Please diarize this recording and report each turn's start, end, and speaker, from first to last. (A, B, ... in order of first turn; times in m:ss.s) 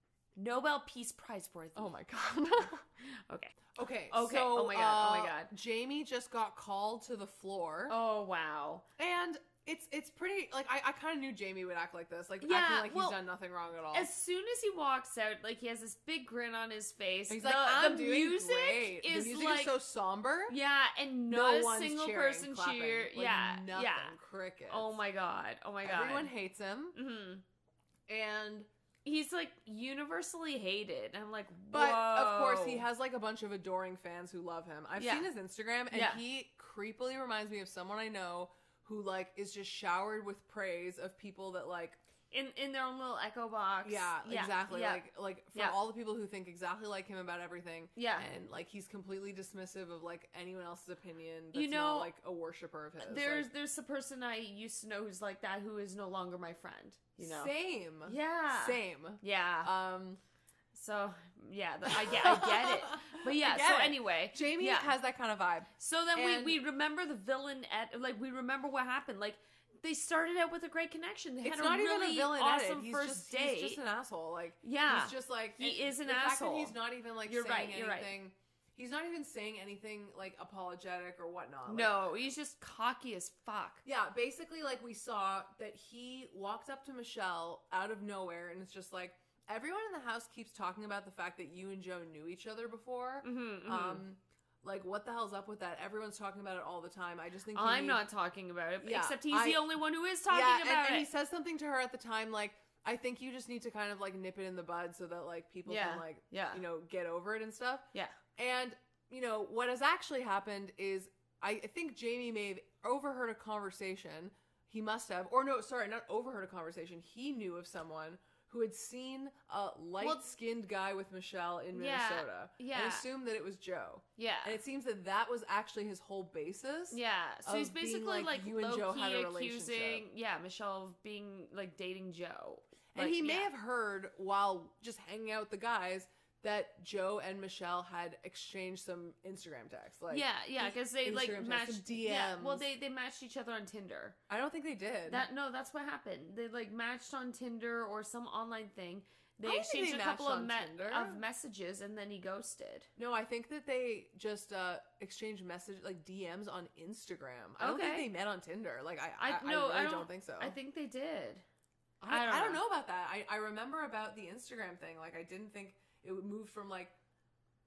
0:00.4-0:02.0 A
0:01.7-0:02.8 B
0:03.0-0:05.5 A
0:03.7-0:07.9 B
0:07.9-0:08.8 A
0:09.0-0:14.1 B
0:12.4-0:13.2 A
0:13.9-0:19.7 A
0:17.3-0:20.6 B
0:20.5-0:24.2 A
0:21.3-0:25.0 B
0:24.7-0:26.3 A
0:25.8-0:27.0 B
0:26.9-0:27.4 A
0:28.1-0:28.7 B
0:29.0-0:32.8 A
0:31.7-0:42.0 B
0:35.0-0:35.3 A
0:35.9-0:36.2 A
0:42.3-0:45.8 A
0:43.8-0:53.5 B
0:48.0-0:48.3 A
0:51.5-0:52.1 A
0:53.0-0:57.5 A
0:57.2-1:00.2 B
0:58.0-0:59.7 A
1:00.7-1:04.9 A
1:01.8-1:06.6 B
1:05.8-1:13.8 A
1:11.4-1:22.3 B
1:14.6-1:18.1 A
1:21.7-1:23.8 A
1:23.8-1:38.0 B
1:33.2-1:34.0 A
1:37.5-1:41.1 A
1:38.8-1:39.6 B
1:40.3-2:10.0 B
1:45.6-1:46.6 A
2:01.7-2:03.0 A
2:04.2-2:04.6 A
2:06.9-2:13.5 A
2:12.9-2:22.6 B
2:20.1-2:24.2 A
2:24.3-2:25.2 B
2:25.1-2:32.9 A
2:29.4-2:31.2 B
2:33.0-2:40.6 B
2:37.6-2:38.1 A
2:39.2-2:41.4 A
2:42.0-2:46.9 B
2:42.1-2:42.6 A